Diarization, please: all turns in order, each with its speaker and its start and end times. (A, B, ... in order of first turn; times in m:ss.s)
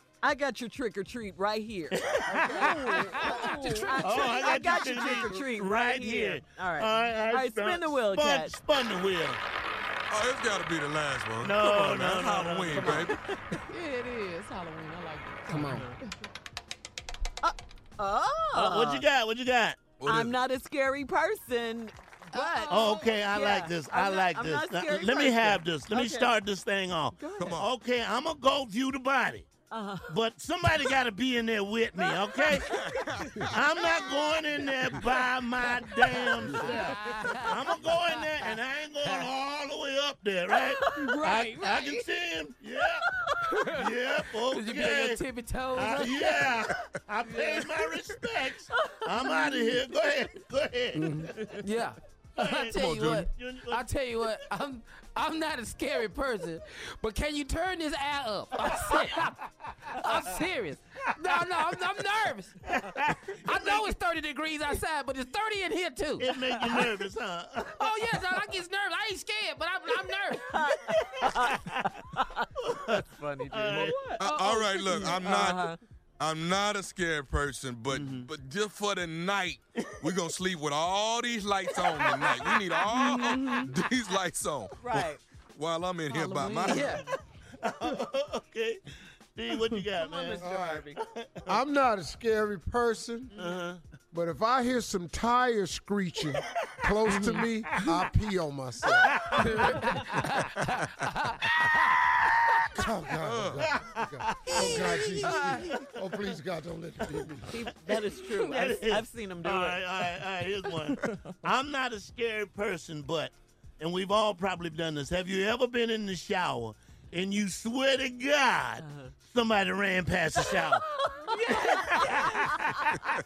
0:00.2-0:08.5 A
0:02.0-0:09.4 B
0:02.6-0:05.0 C
0:03.0-0:03.7 D
0:10.1-0:13.2 E
0:11.4-0:13.2 B
0:12.7-0:13.2 A
0:13.7-0:16.1 D
0:15.5-0:15.9 C
0:17.4-0:19.0 A
0:18.5-0:20.0 B
0:20.0-0:20.4 E
0:20.0-0:26.3 A
0:22.4-0:22.8 C
0:22.4-0:23.1 D
0:22.7-0:29.5 B
0:27.2-0:27.6 A
0:27.4-0:27.7 E
0:29.7-0:30.1 A
0:30.1-0:32.8 B
0:32.0-0:33.2 A
0:32.7-0:33.5 E
0:33.5-0:43.1 B
0:33.8-0:34.7 A
0:36.4-0:36.9 F
0:36.6-0:38.2 C
0:40.8-0:41.2 A
0:41.2-0:41.5 C
0:41.2-0:41.8 D
0:43.5-0:43.9 C
0:43.7-0:51.6 B
0:44.4-0:46.5 C
0:48.7-0:49.7 A
0:51.0-1:02.6 C
0:52.4-0:54.3 B
0:52.8-0:53.3 E
1:00.1-1:00.4 B
1:02.6-1:04.0 B
1:03.4-1:06.3 C
1:06.2-1:08.2 B
1:07.8-1:10.6 C
1:10.5-1:15.8 A
1:10.6-1:11.9 B
1:12.6-1:14.2 B
1:13.9-1:15.2 D
1:14.2-1:27.0 E
1:17.9-1:18.3 B
1:19.8-1:20.2 B
1:21.8-1:22.7 B
1:23.0-1:23.6 D
1:24.8-1:25.2 A
1:26.1-1:26.9 D
1:26.7-1:27.0 C
1:27.6-1:28.8 B
1:29.4-1:31.6 B
1:30.0-1:31.0 A
1:30.4-1:30.8 F
1:31.5-1:33.3 F
1:33.4-1:33.8 B
1:34.1-1:39.7 F
1:37.1-1:37.4 C
1:38.8-1:39.8 B
1:39.4-1:41.6 C
1:42.7-1:47.6 F
1:43.2-1:43.7 E
1:43.7-1:45.9 B
1:45.2-1:45.7 C
1:47.5-1:50.1 A
1:47.9-2:00.9 B
1:58.8-1:59.1 A
2:00.5-2:02.1 A
2:01.3-2:02.5 D
2:01.6-2:03.0 B